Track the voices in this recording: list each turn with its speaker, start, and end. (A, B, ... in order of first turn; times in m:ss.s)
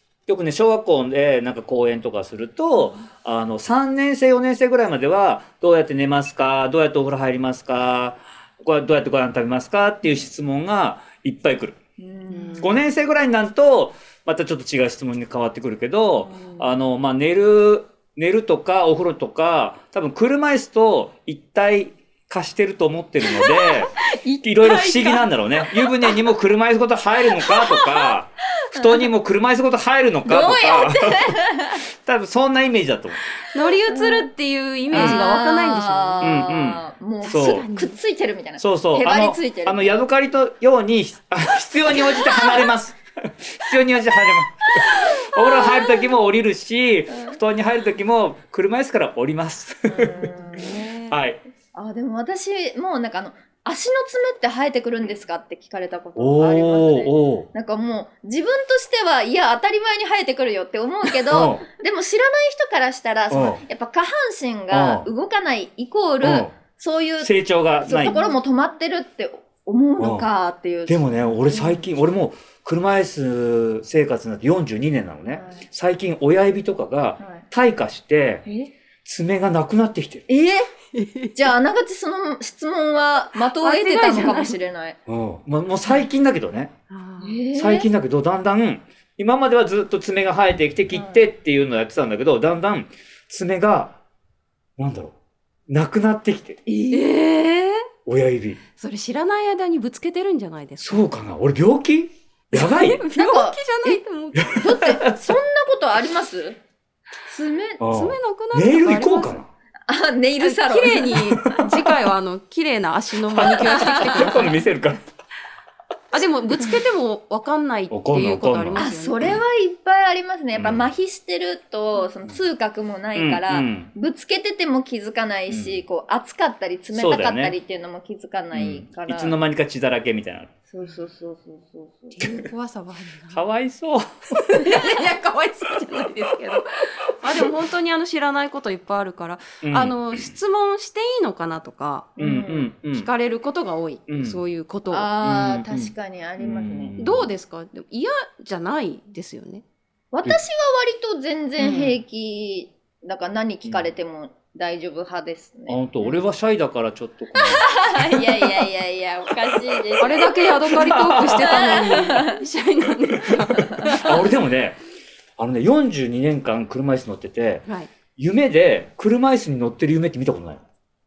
0:00.3-0:11.8 A
0:02.8-0:03.0 B
0:12.0-0:12.9 B
0:12.3-0:12.7 C
0:12.6-0:31.3 A
0:16.2-0:16.8 B
0:23.2-0:26.2 B
0:27.3-0:29.1 B
0:30.2-0:31.8 B
0:32.0-0:33.2 A
0:33.4-0:36.5 C
0:33.6-0:34.3 B
0:34.9-0:40.0 B
0:34.9-0:35.2 A
0:36.2-0:37.6 A
0:37.2-0:38.0 C
0:38.6-0:50.3 A
0:42.0-0:42.7 B
0:44.6-0:46.1 B
0:47.1-0:47.4 B
0:49.9-0:51.1 B
0:50.3-0:51.1 C
0:51.1-0:51.4 A
0:51.7-1:11.8 B
0:56.2-0:57.5 A
1:01.1-1:01.6 A
1:03.3-1:03.6 A
1:04.7-1:05.1 A
1:06.2-1:06.5 A
1:07.2-1:08.2 A
1:10.0-1:10.3 A
1:10.9-1:18.4 A
1:15.3-1:15.7 B
1:17.2-1:17.4 B
1:18.4-1:18.7 B
1:19.0-1:20.2 A
1:20.3-1:20.7 B
1:20.9-1:21.4 C
1:21.3-1:25.0 B
1:23.5-1:24.6 C
1:25.1-1:26.7 A
1:26.9-1:27.4 C
1:27.2-1:27.9 B
1:27.5-1:34.0 A
1:30.9-1:31.3 B
1:34.8-1:35.1 A
1:35.7-1:36.6 A
1:36.7-1:37.1 B
1:36.9-1:37.9 C
1:38.0-1:38.6 A
1:38.8-1:41.0 C
1:40.8-1:43.0 A
1:42.5-1:44.6 C
1:43.0-1:46.6 B
1:44.4-1:45.2 A
1:47.3-1:47.8 B
1:47.8-1:49.5 A
1:47.9-1:49.4 C
1:49.9-1:51.2 B
1:50.4-1:54.6 C
1:51.2-1:51.9 A
1:53.3-1:55.0 A
1:53.5-1:54.5 B
1:56.1-1:59.3 C
1:57.9-1:59.4 A
1:58.8-2:09.4 B
2:00.5-2:00.9 A
2:03.1-2:03.9 A
2:05.5-2:05.8 A
2:06.9-2:07.6 A
2:08.5-2:10.5 A
2:10.7-2:12.4 B
2:12.2-2:13.4 C
2:13.3-2:14.8 A
2:14.5-2:22.2 C
2:19.6-2:20.3 A
2:22.2-2:22.7 B
2:22.2-2:23.1 A
2:22.9-2:25.1 C
2:24.1-2:24.4 A
2:24.9-2:27.0 B
2:25.2-2:27.3 A
2:27.0-2:29.6 C
2:30.1-2:36.2 B
2:31.6-2:32.0 C
2:35.7-2:38.6 A
2:37.3-2:40.8 B
2:39.5-2:40.0 A
2:40.0-2:44.2 C
2:40.7-2:41.8 A
2:41.4-2:42.4 B
2:43.8-2:44.8 A
2:45.4-2:47.6 A
2:47.6-2:47.9 C
2:48.2-2:50.6 A